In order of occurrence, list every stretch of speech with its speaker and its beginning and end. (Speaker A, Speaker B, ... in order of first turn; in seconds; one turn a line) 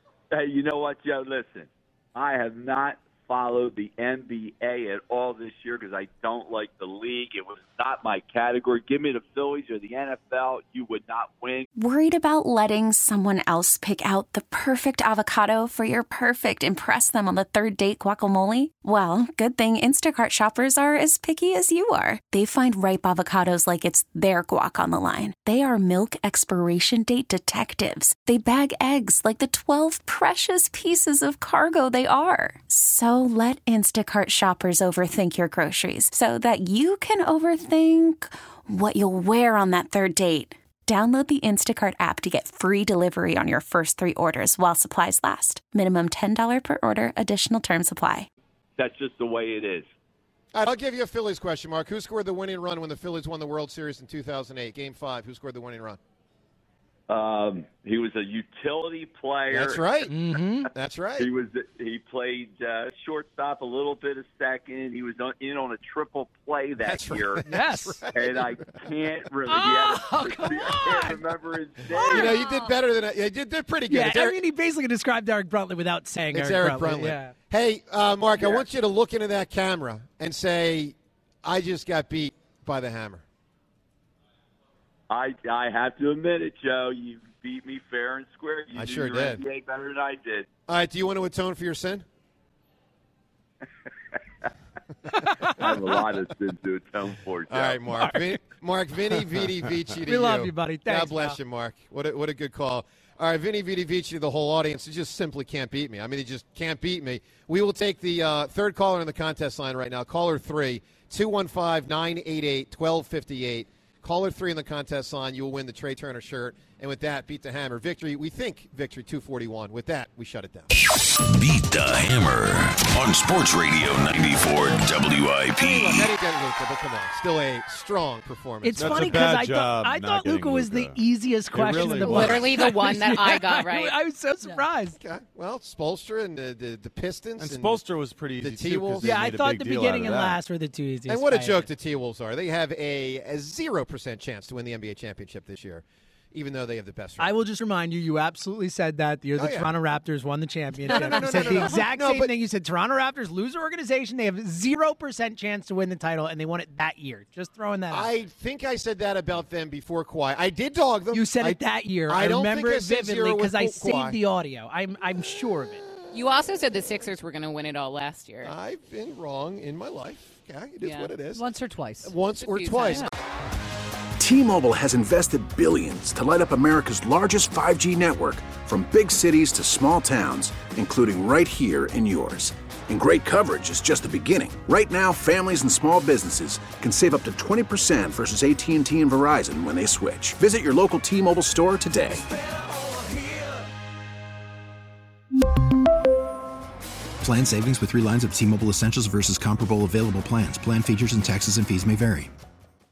Speaker A: 0.3-11.7
Speaker B: 11.8-48.3
Speaker A: 48.8-49.9
Speaker C: 50.5-56.0
Speaker A: 57.1-59.9
Speaker C: 59.5-60.1
Speaker D: 60.1-60.7
Speaker C: 60.7-61.3
Speaker A: 61.2-67.5
Speaker C: 66.8-68.9
Speaker D: 67.5-68.0
Speaker A: 68.1-72.4
Speaker D: 69.5-71.2
Speaker D: 71.9-72.4
Speaker C: 72.0-74.4
Speaker D: 73.9-77.3
Speaker C: 76.3-83.2
Speaker A: 78.4-78.7
Speaker A: 85.1-90.5
Speaker C: 88.7-89.4
Speaker C: 90.7-92.0
Speaker D: 95.2-95.7
Speaker A: 95.5-97.8
Speaker C: 97.5-120.7
Speaker D: 97.9-98.4
Speaker D: 100.1-101.4
Speaker E: 121.3-126.1
Speaker C: 125.5-129.1
Speaker D: 128.6-135.0
Speaker F: 128.8-132.7
Speaker G: 132.0-134.6
Speaker C: 135.0-137.8
Speaker F: 137.4-140.4
Speaker C: 138.4-139.3
Speaker D: 139.0-141.7
Speaker C: 141.1-147.3
Speaker D: 147.2-158.2
Speaker C: 149.4-149.7
Speaker C: 150.8-152.3
Speaker C: 157.9-164.2
Speaker D: 161.1-165.8
Speaker G: 166.1-168.5
Speaker C: 168.4-171.5
Speaker G: 170.8-173.1
Speaker C: 172.0-173.1
Speaker H: 174.2-192.2
Speaker I: 197.2-202.3